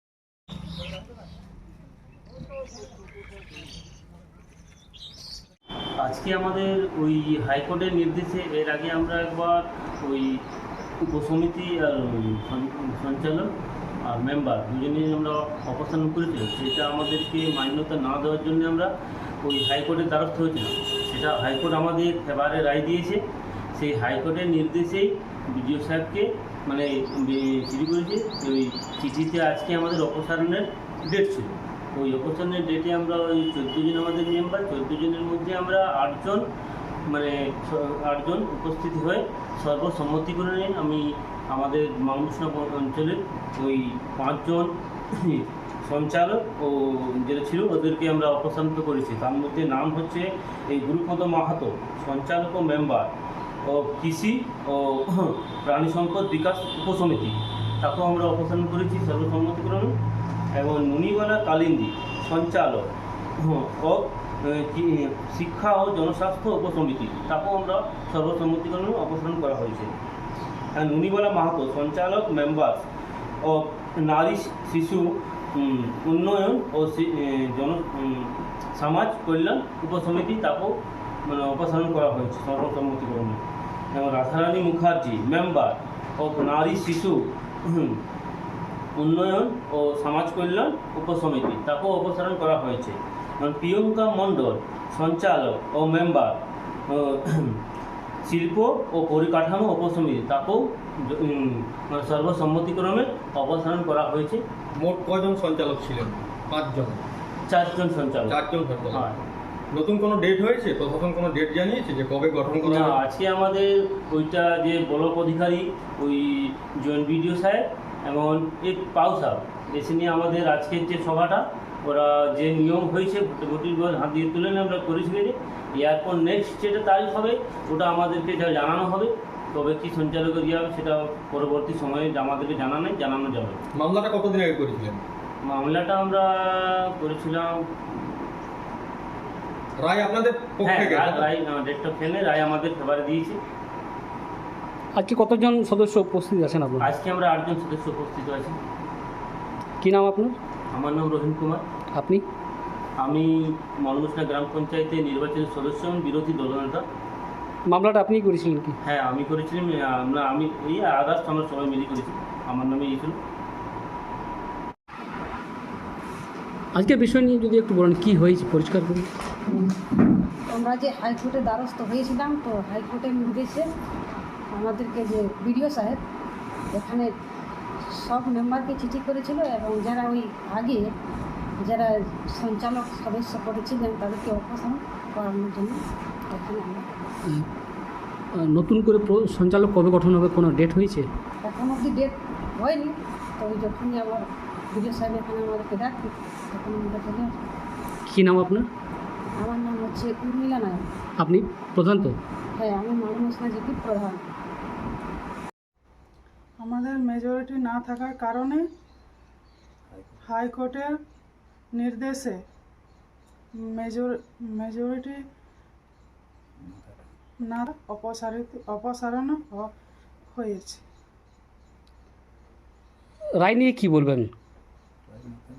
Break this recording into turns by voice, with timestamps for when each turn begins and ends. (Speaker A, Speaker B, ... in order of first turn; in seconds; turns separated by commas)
Speaker A: 6.0-10.4, Speaker A: 11.0-13.5, Speaker A: 14.1-23.2, Speaker A: 23.7-36.5, Speaker A: 37.1-53.1, Speaker A: 53.6-60.0, Speaker A: 60.5-69.9, Speaker A: 70.7-72.9, Speaker A: 73.4-83.4, Speaker A: 83.9-88.0, Speaker A: 89.0-97.6, Speaker A: 98.2-104.4, Speaker B: 104.8-107.0, Speaker A: 107.5-108.4, Speaker B: 108.3-109.2, Speaker A: 108.9-109.2, Speaker B: 109.7-113.0, Speaker A: 112.5-133.6, Speaker B: 133.7-135.0, Speaker A: 135.4-138.2, Speaker B: 139.8-141.3, Speaker A: 140.6-143.4, Speaker C: 144.9-146.9, Speaker A: 146.8-148.6, Speaker C: 149.8-150.4, Speaker A: 150.7-151.6, Speaker C: 151.9-152.2, Speaker A: 153.0-156.8, Speaker C: 157.7-158.8, Speaker A: 158.8-163.2, Speaker C: 166.7-169.1, Speaker D: 170.5-173.7, Speaker D: 174.5-176.0, Speaker D: 176.7-177.1, Speaker D: 177.9-180.9, Speaker D: 181.6-185.8, Speaker D: 186.3-186.9, Speaker C: 188.3-191.1, Speaker D: 191.4-197.4, Speaker C: 198.1-198.7, Speaker D: 199.4-200.9, Speaker C: 201.2-202.2, Speaker D: 202.6-204.3, Speaker E: 206.6-208.7, Speaker E: 210.2-211.0, Speaker E: 211.7-212.4, Speaker E: 213.5-215.3, Speaker E: 217.4-219.7, Speaker E: 220.2-220.8, Speaker C: 223.4-224.3